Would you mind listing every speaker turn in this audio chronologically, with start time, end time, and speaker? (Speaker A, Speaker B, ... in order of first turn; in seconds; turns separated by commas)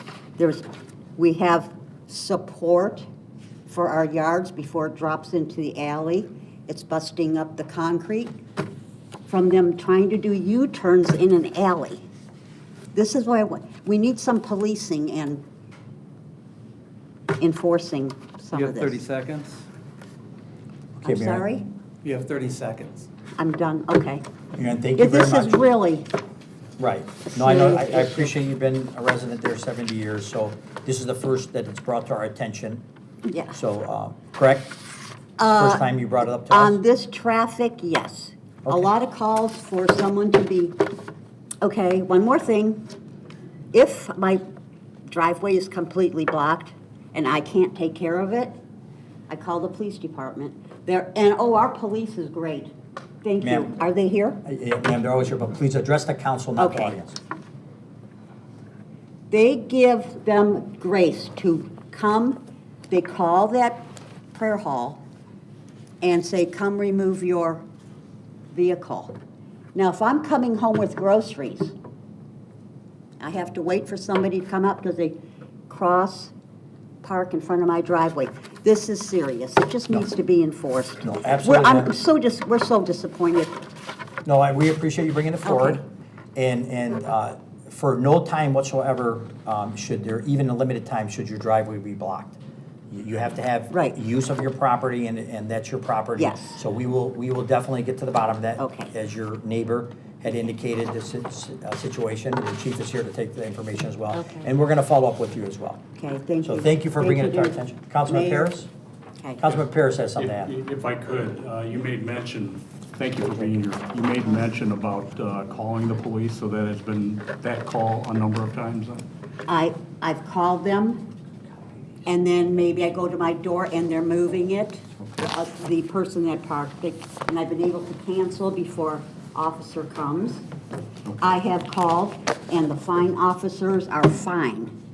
Speaker A: 0.4-0.7, Speaker A: 1.2-3.1, Speaker A: 3.7-8.4, Speaker A: 9.3-12.1, Speaker A: 12.9-15.4, Speaker A: 17.4-19.0, Speaker B: 18.5-19.7, Speaker C: 21.0-21.5, Speaker A: 21.0-21.7, Speaker B: 22.0-23.1, Speaker A: 23.4-24.2, Speaker C: 24.6-25.7, Speaker A: 25.0-26.1, Speaker C: 26.8-32.8, Speaker A: 27.3-28.3, Speaker A: 33.3-33.6, Speaker C: 33.5-34.8, Speaker A: 35.4-35.9, Speaker C: 35.5-36.8, Speaker A: 36.5-40.8, Speaker A: 41.6-42.9, Speaker A: 43.7-44.4, Speaker A: 45.1-48.6, Speaker A: 49.3-54.4, Speaker C: 53.4-53.7, Speaker C: 54.4-57.2, Speaker A: 56.6-56.9, Speaker A: 59.3-65.0, Speaker A: 66.0-67.7, Speaker A: 68.5-69.1, Speaker A: 69.7-71.8, Speaker A: 73.2-75.2, Speaker A: 75.7-76.3, Speaker A: 77.0-83.5, Speaker C: 81.0-81.9, Speaker C: 84.2-85.8, Speaker A: 85.5-85.8, Speaker C: 86.3-92.4, Speaker C: 92.9-105.8, Speaker A: 93.7-94.0, Speaker A: 96.2-96.6, Speaker A: 98.6-98.9, Speaker A: 104.1-104.5, Speaker A: 106.0-108.5, Speaker C: 106.4-108.7, Speaker C: 109.4-110.5, Speaker D: 110.2-119.0, Speaker A: 119.5-121.1, Speaker A: 122.0-130.5, Speaker D: 131.1-131.3, Speaker A: 131.2-134.7